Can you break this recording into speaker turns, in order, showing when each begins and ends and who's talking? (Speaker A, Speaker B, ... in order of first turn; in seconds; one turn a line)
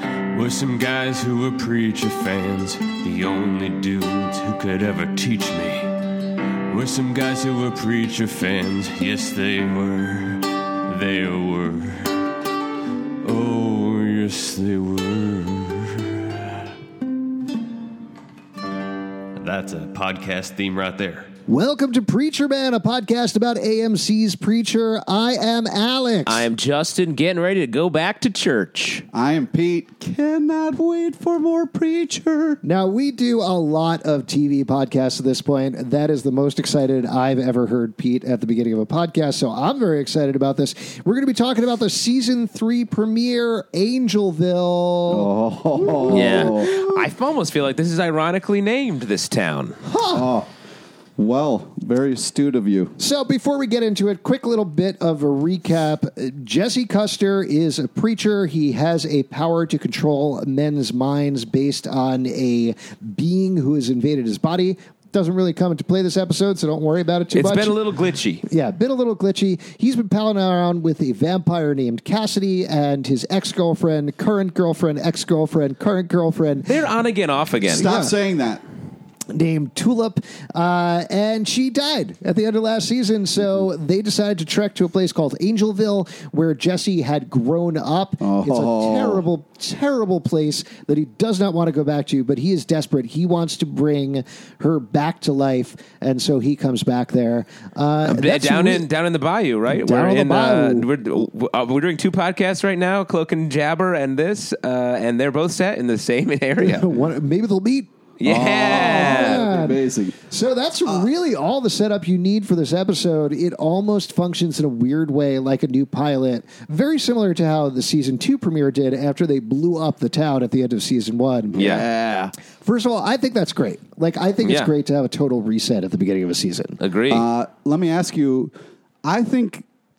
Speaker A: 0.3-5.9
Speaker B: 0.4-2.5
Speaker B: 5.2-5.7
Speaker A: 6.7-12.2
Speaker B: 7.4-9.6
Speaker A: 13.2-16.4
Speaker A: 19.4-21.3
Speaker B: 19.5-20.8
Speaker C: 21.5-26.5
Speaker B: 26.2-29.1
Speaker D: 29.1-32.6
Speaker C: 32.6-46.9
Speaker D: 45.1-46.9
Speaker B: 46.1-49.8
Speaker C: 49.8-50.3
Speaker D: 50.1-50.5
Speaker D: 51.2-53.0
Speaker C: 53.0-67.8
Speaker B: 67.3-68.5
Speaker C: 68.5-76.7
Speaker B: 76.6-77.9
Speaker D: 77.7-78.6
Speaker C: 77.7-78.2
Speaker C: 79.3-98.8
Speaker D: 88.2-89.2
Speaker B: 98.0-107.0
Speaker C: 99.7-100.9
Speaker C: 106.6-107.9
Speaker B: 108.2-109.4
Speaker D: 108.2-110.2
Speaker C: 108.5-121.9
Speaker B: 121.5-121.9
Speaker D: 121.5-122.3
Speaker C: 122.6-126.8
Speaker B: 124.4-124.7
Speaker B: 126.8-127.2
Speaker D: 127.1-128.5
Speaker D: 129.0-129.6